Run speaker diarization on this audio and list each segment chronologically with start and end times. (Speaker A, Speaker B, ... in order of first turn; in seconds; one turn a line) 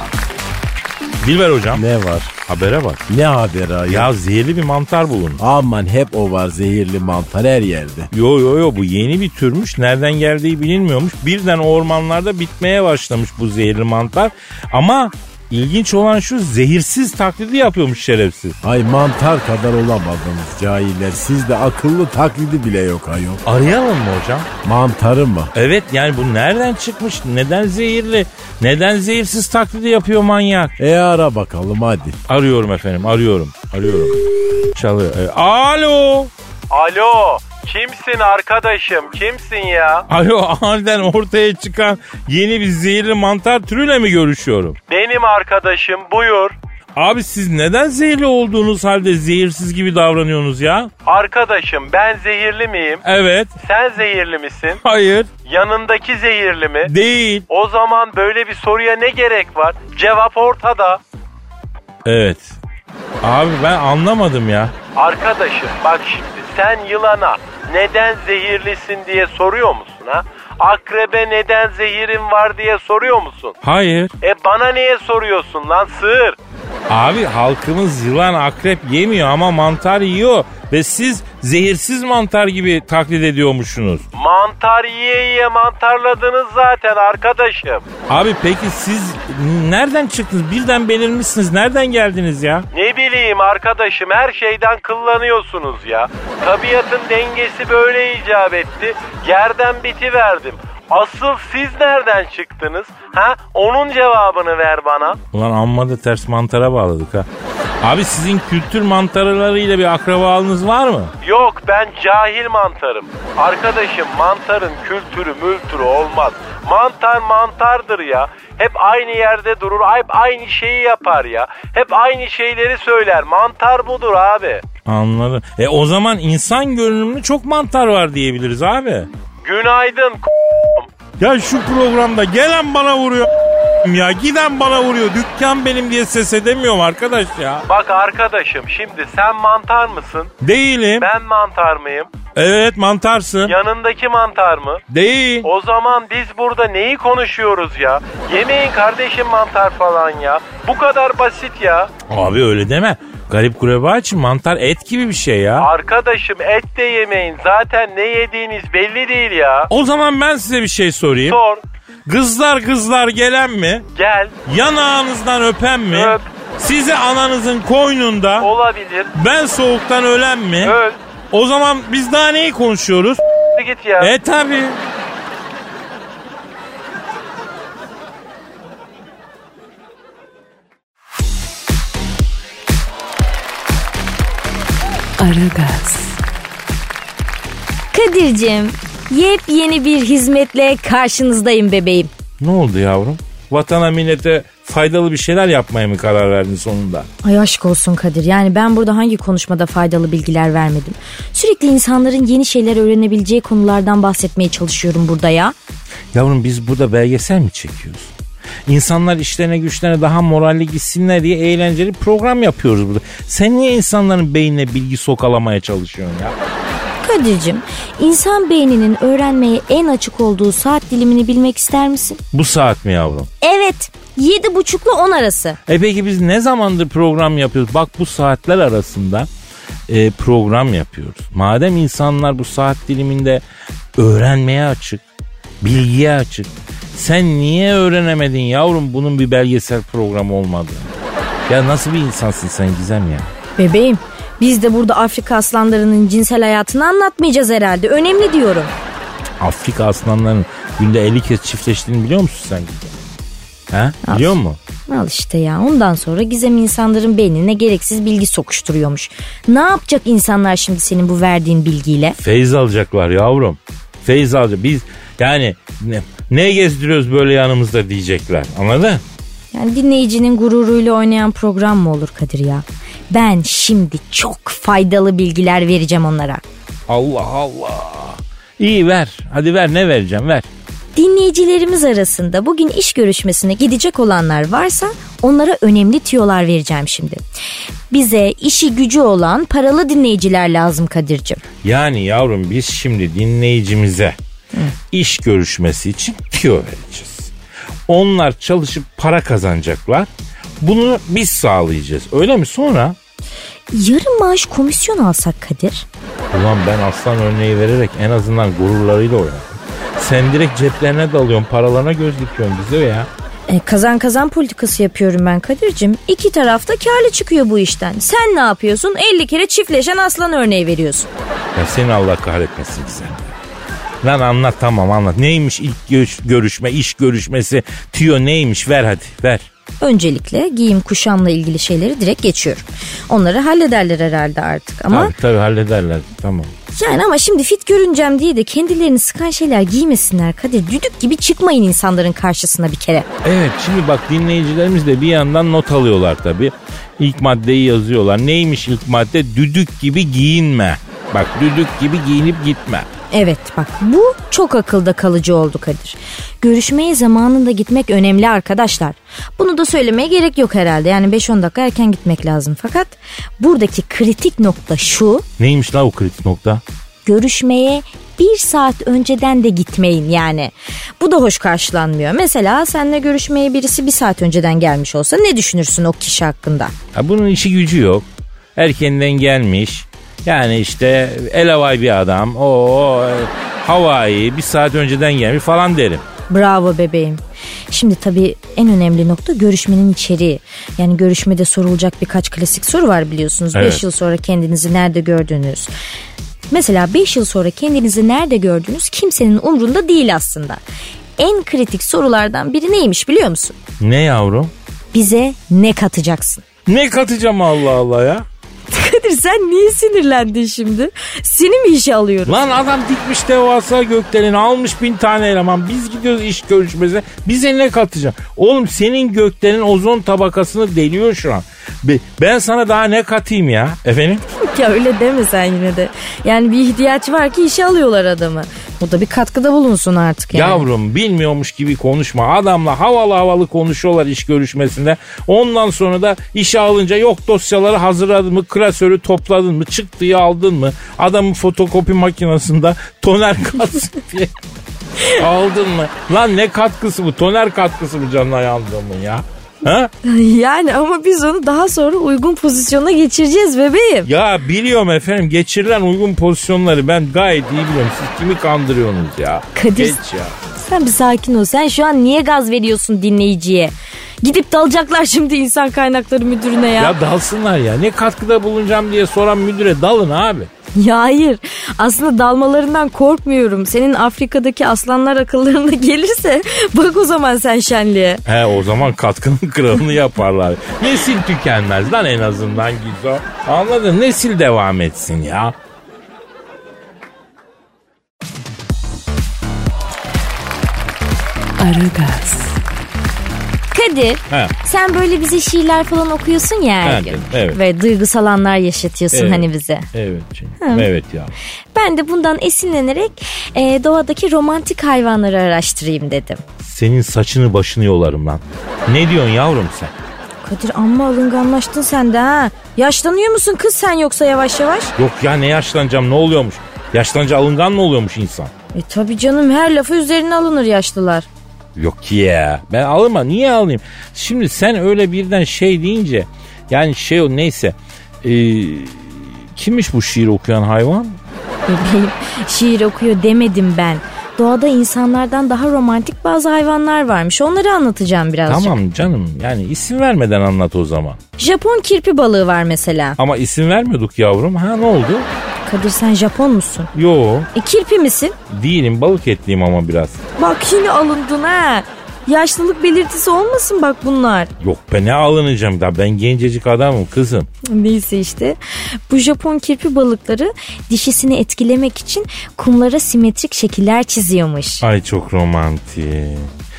Speaker A: 1.2-1.8
Speaker B: 1.7-2.3
Speaker A: 2.5-3.0
Speaker B: 3.1-4.1
Speaker A: 3.9-5.4
Speaker B: 5.4-8.1
Speaker A: 8.1-18.6
Speaker B: 18.6-23.4
Speaker A: 23.4-24.5
Speaker B: 24.6-25.5
Speaker A: 25.5-30.7
Speaker B: 30.8-32.2
Speaker A: 32.3-34.2
Speaker A: 34.7-36.3
Speaker C: 36.7-40.0
Speaker A: 40.1-44.8
Speaker C: 44.9-46.5
Speaker A: 47.0-50.9
Speaker C: 51.0-53.0
Speaker A: 53.0-53.5
Speaker C: 53.6-54.8
Speaker A: 54.8-55.3
Speaker C: 55.5-56.9
Speaker A: 56.9-57.5
Speaker C: 57.5-61.0
Speaker A: 62.0-62.5
Speaker A: 63.2-64.7
Speaker C: 65.0-73.5
Speaker A: 73.6-74.1
Speaker C: 74.2-76.4
Speaker A: 76.9-84.0
Speaker C: 84.1-87.8
Speaker A: 88.1-92.7
Speaker C: 92.7-105.2
Speaker A: 105.3-107.3
Speaker A: 107.8-111.1
Speaker C: 111.2-124.6
Speaker A: 124.8-129.1
Speaker C: 129.4-130.9
Speaker A: 131.2-137.7
Speaker C: 137.7-140.3
Speaker A: 140.4-141.1
Speaker C: 141.0-142.1
Speaker A: 142.4-143.5
Speaker C: 143.4-144.8
Speaker A: 144.9-145.5
Speaker C: 145.4-151.9
Speaker A: 152.1-155.7
Speaker C: 155.6-159.7
Speaker A: 159.7-161.4
Speaker C: 161.2-161.6
Speaker A: 162.1-163.9
Speaker C: 163.9-164.3
Speaker A: 164.4-168.5
Speaker C: 165.9-166.2
Speaker C: 168.4-169.1
Speaker A: 169.1-170.8
Speaker C: 170.6-171.0
Speaker A: 171.3-173.2
Speaker C: 173.6-174.1
Speaker A: 174.0-174.8
Speaker D: 185.2-186.2
Speaker E: 187.9-192.1
Speaker A: 192.4-197.1
Speaker E: 197.2-205.5
Speaker A: 206.1-208.1
Speaker A: 208.7-216.3
Speaker E: 217.0-222.2
Speaker A: 222.3-223.3
Speaker E: 223.4-225.6
Speaker A: 225.7-229.3
Speaker A: 229.9-233.4
Speaker A: 233.9-235.0
Speaker A: 235.6-240.9
Speaker A: 241.5-243.3
Speaker E: 243.6-248.7
Speaker A: 249.4-252.9
Speaker A: 253.7-254.6
Speaker E: 254.0-254.4
Speaker E: 254.9-262.2
Speaker A: 262.2-269.0
Speaker E: 269.5-276.4
Speaker A: 276.9-280.5
Speaker E: 280.9-287.2
Speaker E: 287.9-291.4
Speaker A: 291.6-294.2
Speaker A: 294.9-297.3
Speaker A: 297.9-300.1
Speaker A: 300.6-303.0
Speaker E: 303.7-305.9
Speaker A: 306.3-313.1
Speaker E: 313.5-321.1
Speaker A: 321.6-323.3
Speaker A: 324.0-329.5
Speaker E: 329.8-335.1
Speaker A: 334.9-336.5
Speaker E: 336.7-343.1
Speaker A: 343.2-352.9
Speaker E: 353.1-365.2
Speaker A: 365.4-366.6
Speaker E: 367.1-376.7
Speaker A: 376.9-386.0
Speaker E: 386.3-395.7
Speaker A: 393.5-393.8
Speaker E: 396.5-400.6
Speaker E: 401.2-403.6
Speaker A: 403.8-404.5
Speaker E: 404.9-406.4
Speaker A: 406.6-408.2
Speaker E: 408.7-412.4
Speaker A: 412.2-424.2
Speaker E: 424.4-430.6
Speaker A: 430.3-444.4
Speaker A: 445.1-449.9
Speaker E: 450.0-454.1
Speaker A: 454.0-460.4
Speaker E: 459.5-460.0
Speaker E: 460.6-466.9
Speaker A: 466.8-470.5
Speaker E: 470.8-478.2
Speaker A: 478.2-485.5
Speaker D: 491.6-492.6
Speaker E: 493.7-499.9
Speaker A: 496.8-497.6
Speaker A: 499.1-501.4
Speaker E: 500.6-500.9
Speaker E: 501.7-506.4
Speaker A: 506.6-509.9
Speaker E: 510.4-514.9
Speaker A: 515.0-518.5
Speaker E: 518.7-521.3
Speaker A: 521.8-531.2
Speaker E: 531.7-538.8
Speaker A: 538.5-541.2
Speaker E: 541.4-543.2
Speaker A: 543.2-545.3
Speaker E: 545.6-546.9
Speaker A: 546.9-547.5
Speaker E: 547.5-548.4
Speaker A: 548.5-550.2
Speaker E: 550.4-554.5
Speaker A: 554.6-557.5
Speaker E: 557.6-558.6
Speaker E: 559.1-564.8
Speaker A: 564.8-566.5